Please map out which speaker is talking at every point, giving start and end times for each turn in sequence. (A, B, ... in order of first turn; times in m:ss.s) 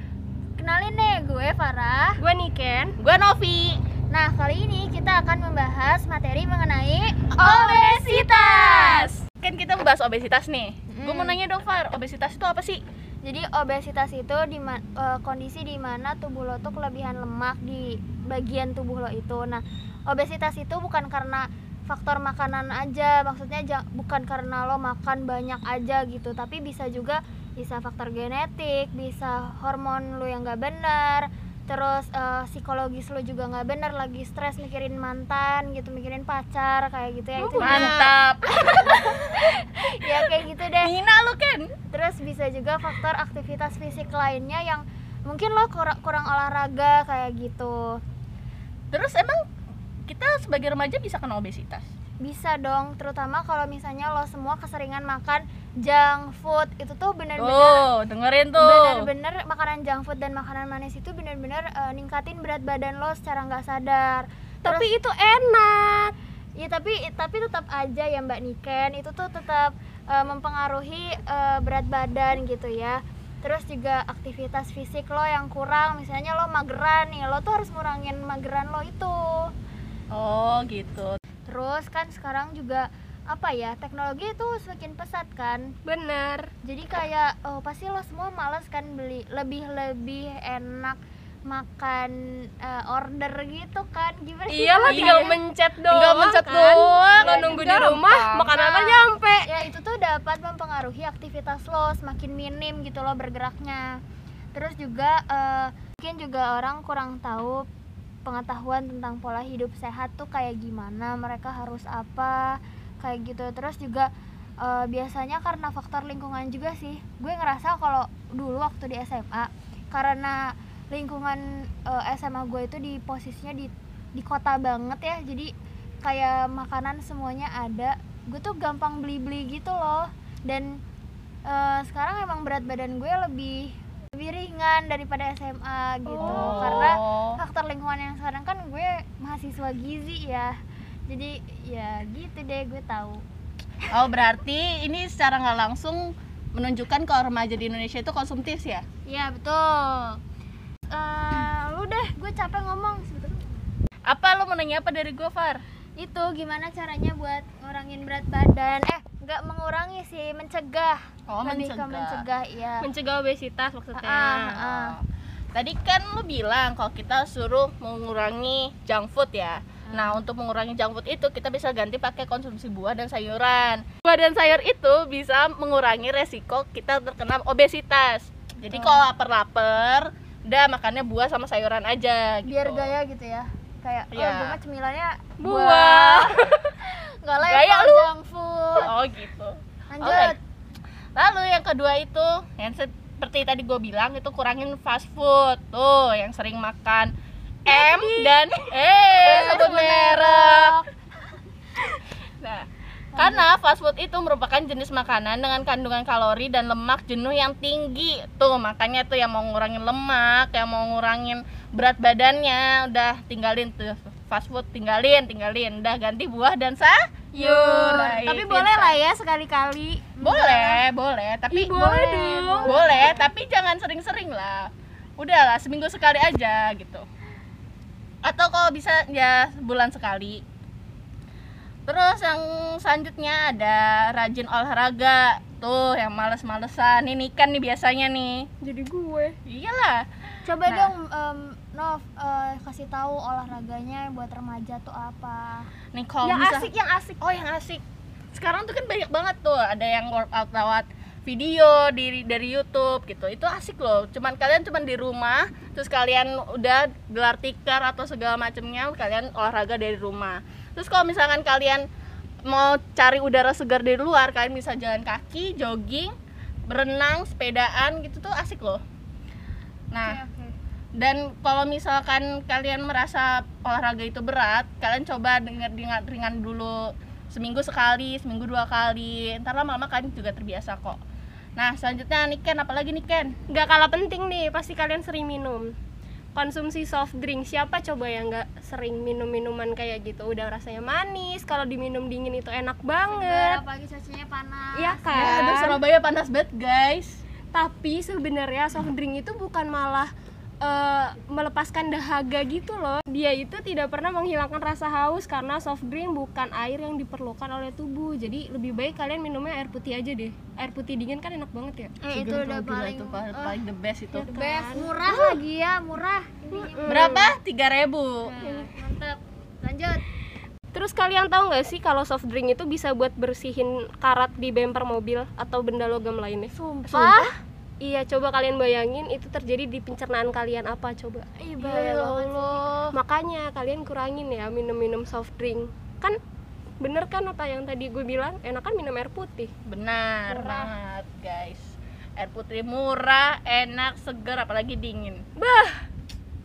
0:00.6-0:02.2 A
0:02.2-0:03.0 B
0:03.0-0:03.8 C
0:04.1-0:09.1 A
0:07.3-0:12.8 C
0:10.9-0:11.4 A
0:13.2-0:40.9 A
0:37.4-0:38.1 B
0:37.6-0:41.7 C
0:41.9-0:48.0 A
0:48.9-0:49.4 C
0:50.1-0:51.9 C
0:52.2-0:57.8 A
0:57.4-0:59.1 C
0:58.6-1:04.9 A
1:04.6-1:06.1 B
1:06.6-1:19.5 A
1:20.1-1:21.2 C
1:21.5-1:25.7 A
1:25.8-1:26.5 B
1:26.6-1:35.4 A
1:34.5-1:39.5 B
1:34.9-1:35.4 C
1:35.9-1:38.5 C
1:37.1-1:37.9 A
1:38.5-1:44.0 A
1:44.5-1:47.7 A
1:48.2-1:54.1 A
1:54.6-2:05.5 A
2:06.0-2:10.8 A
2:11.5-2:20.6 A
2:16.0-2:16.8 B
2:16.2-2:17.4 C
2:21.1-2:23.2 A
2:23.9-2:28.8 C
2:29.0-2:30.2 A
2:30.9-2:33.5 A
2:34.1-2:35.6 C
2:36.0-2:42.9 A
2:41.3-2:42.2 C
2:42.8-2:44.6 B
2:44.0-2:45.0 A
2:44.5-3:02.9 C
2:49.9-2:50.2 A
2:58.7-2:59.0 A
3:02.4-3:08.9 A
3:04.1-3:04.6 C
3:05.4-3:06.4 C
3:07.4-3:08.1 C
3:08.8-3:10.3 C
3:09.9-3:10.4 A
3:11.2-3:17.1 C
3:17.6-3:20.8 C
3:17.7-3:18.3 A
3:19.2-3:20.9 A
3:22.4-3:39.0 C
3:23.1-3:23.4 A
3:37.3-3:40.8 A
3:37.6-3:38.8 B
3:40.2-3:41.8 C
3:41.5-3:43.1 B
3:41.7-3:43.2 A
3:42.6-3:47.1 C
3:48.2-3:50.4 C
3:51.8-3:58.5 C
3:58.6-3:59.4 B
3:59.4-4:00.1 C
4:00.4-4:05.7 A
4:00.6-4:00.9 C
4:05.9-4:07.8 C
4:06.2-4:07.2 B
4:08.3-4:21.8 C
4:22.4-4:26.1 C
4:26.7-4:28.8 C
4:29.9-4:30.2 C
4:30.0-4:30.5 A
4:31.0-4:41.0 C
4:41.6-4:43.4 C
4:43.5-4:45.7 B
4:46.3-4:53.6 B
4:53.1-4:55.1 A
4:54.7-4:55.8 B
4:55.1-4:57.2 C
4:57.5-5:11.9 B
5:12.0-5:13.6 A
5:12.1-5:14.3 C
5:14.1-5:15.4 B
5:14.3-5:17.2 A
5:16.5-5:17.3 B
5:16.9-5:18.3 C
5:18.2-5:20.0 A
5:18.4-5:18.8 B
5:20.7-5:27.3 B
5:26.5-5:27.3 A
5:26.9-5:27.3 C
5:27.8-5:36.2 B
5:31.4-5:32.7 A
5:32.5-5:32.9 C
5:36.8-5:39.5 B
5:39.6-5:45.2 C
5:40.3-5:40.7 A
5:45.4-5:45.8 B